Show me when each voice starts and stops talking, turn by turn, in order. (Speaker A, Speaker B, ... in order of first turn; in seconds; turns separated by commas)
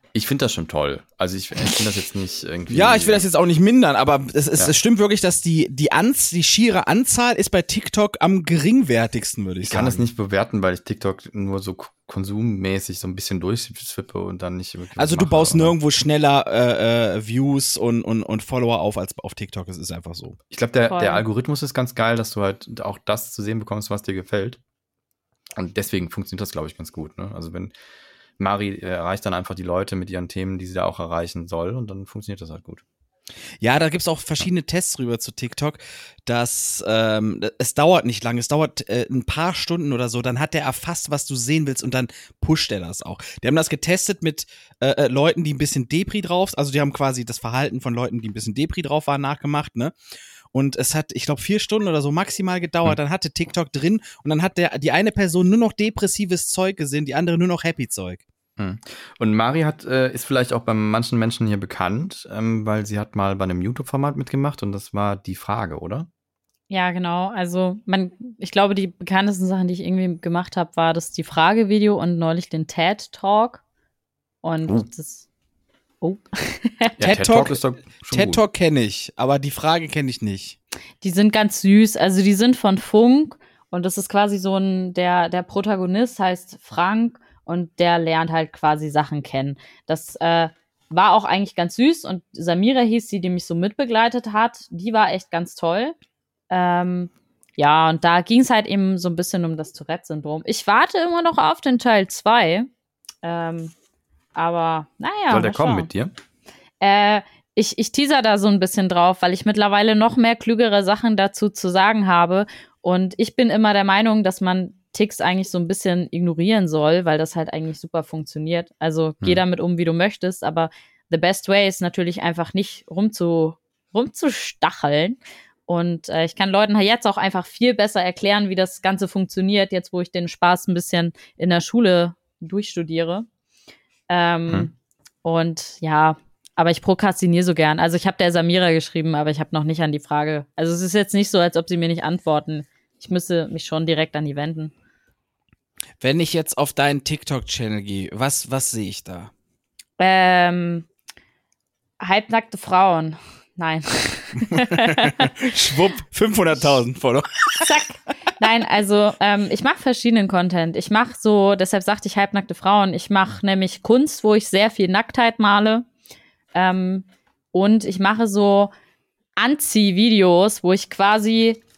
Speaker A: 0.1-3.2, Speaker B: 2.7-10.0, Speaker A: 9.6-15.8, Speaker B: 15.0-20.4, Speaker A: 20.5-24.6, Speaker C: 20.9-21.2, Speaker A: 25.5-27.7, Speaker A: 28.4-32.8, Speaker B: 33.6-49.9, Speaker B: 50.5-58.2, Speaker A: 58.6-66.1, Speaker C: 66.7-73.6, Speaker C: 74.4-75.2, Speaker C: 76.0-76.9, Speaker A: 77.0-78.4, Speaker B: 77.0-80.6, Speaker C: 81.0-96.0, Speaker C: 96.5-102.7, Speaker C: 103.2-103.7, Speaker C: 104.3-105.9, Speaker A: 105.3-106.2, Speaker C: 106.8-133.3, Speaker C: 134.1-134.7, Speaker C: 135.2-144.7, Speaker B: 146.0-149.3, Speaker C: 150.0-150.9, Speaker C: 152.0-155.2, Speaker B: 154.7-157.6, Speaker C: 157.6-165.8, Speaker C: 166.5-168.7, Speaker C: 169.4-171.6